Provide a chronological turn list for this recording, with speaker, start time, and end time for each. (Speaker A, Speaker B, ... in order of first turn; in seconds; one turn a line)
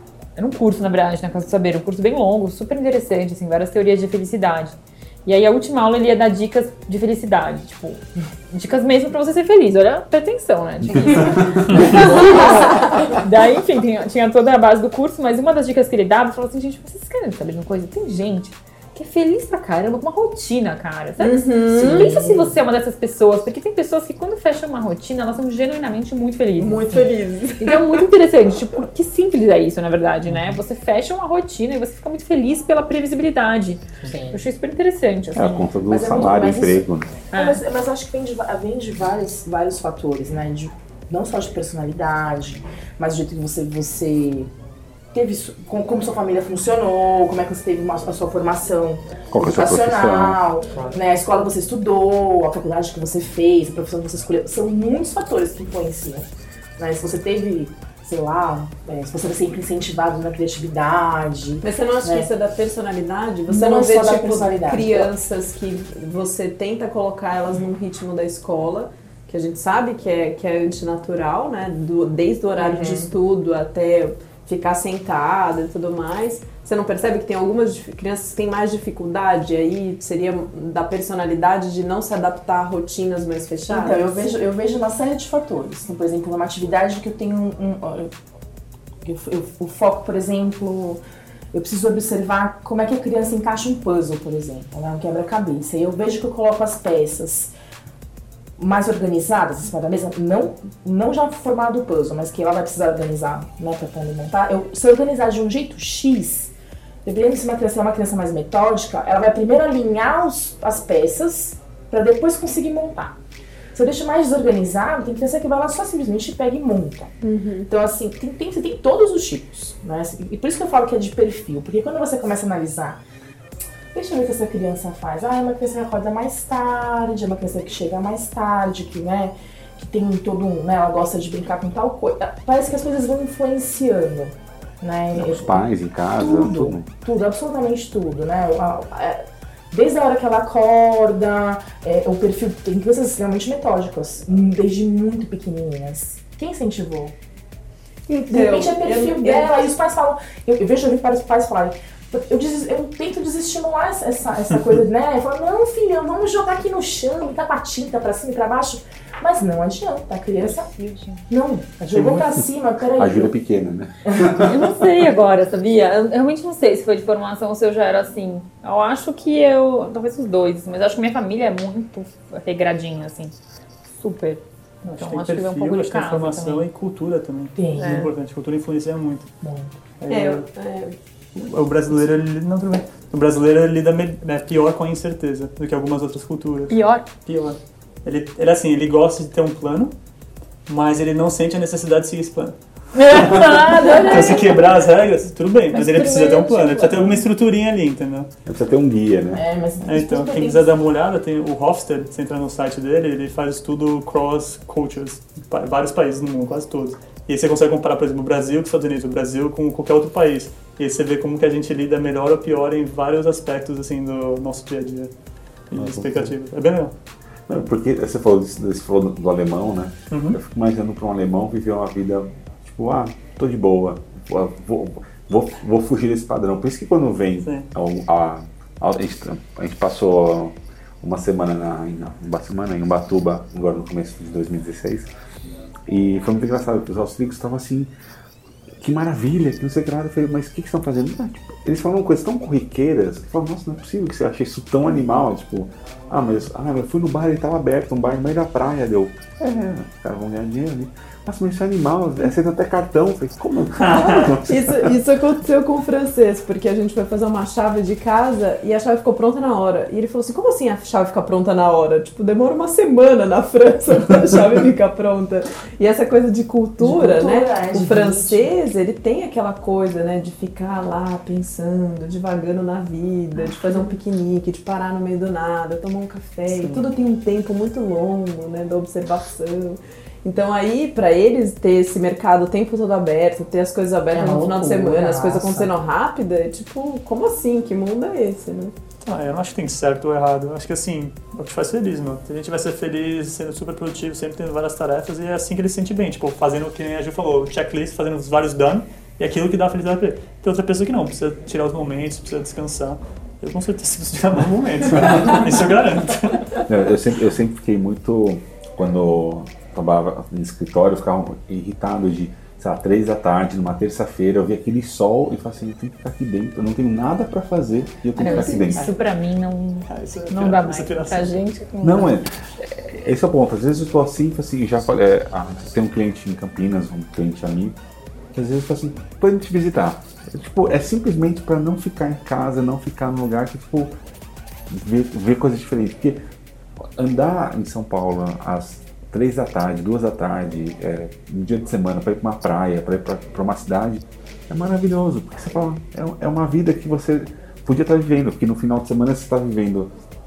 Speaker A: 0.4-35.7
Speaker B: 11.9-12.8
Speaker B: 21.2-22.2
Speaker C: 21.8-22.5
Speaker B: 26.6-28.0
Speaker D: 30.3-30.6
Speaker C: 34.0-34.4
Speaker E: 35.3-37.3
Speaker C: 35.9-44.5
Speaker A: 37.3-37.6
Speaker C: 45.1-62.3
Speaker E: 49.3-50.4
Speaker B: 61.6-84.0
Speaker C: 63.5-65.1
Speaker C: 72.6-73.1
Speaker C: 83.7-88.1
Speaker C: 89.0-91.0
Speaker C: 91.5-97.5
Speaker C: 98.6-106.5
Speaker C: 107.0-113.2
Speaker C: 113.7-117.1
Speaker B: 117.2-117.7
Speaker C: 117.7-123.0
Speaker C: 123.9-135.7
Speaker E: 135.1-136.9
Speaker C: 136.2-147.2
Speaker C: 148.1-160.7
Speaker B: 148.3-149.7
Speaker A: 160.8-161.2
Speaker C: 161.3-163.3
Speaker E: 161.9-162.2
Speaker E: 163.0-164.6
Speaker C: 164.1-164.3
Speaker A: 164.4-173.3
Speaker A: 173.9-176.7
Speaker D: 174.8-179.3
Speaker C: 177.6-178.1
Speaker A: 177.8-178.1
Speaker C: 179.4-179.7
Speaker D: 180.0-180.5
Speaker B: 180.1-181.0
Speaker D: 181.3-189.9
Speaker A: 186.7-187.1
Speaker D: 190.7-198.3
Speaker A: 192.9-194.6
Speaker A: 195.7-197.2
Speaker E: 198.5-199.4
Speaker C: 199.3-200.7
Speaker D: 199.8-215.1
Speaker D: 215.7-216.9
Speaker E: 215.8-216.3
Speaker E: 217.5-235.1
Speaker D: 220.1-220.4
Speaker E: 235.9-237.9
Speaker E: 238.8-254.9
Speaker D: 253.8-254.2
Speaker B: 254.4-288.7
Speaker C: 266.8-268.5
Speaker D: 276.5-276.9
Speaker C: 284.1-285.7
Speaker D: 289.0-306.5
Speaker E: 306.7-318.9
Speaker A: 318.2-322.2
Speaker D: 318.3-318.9
Speaker D: 319.9-321.4
Speaker E: 321.8-327.8
Speaker E: 328.3-334.0
Speaker E: 334.7-336.2
Speaker E: 337.0-349.9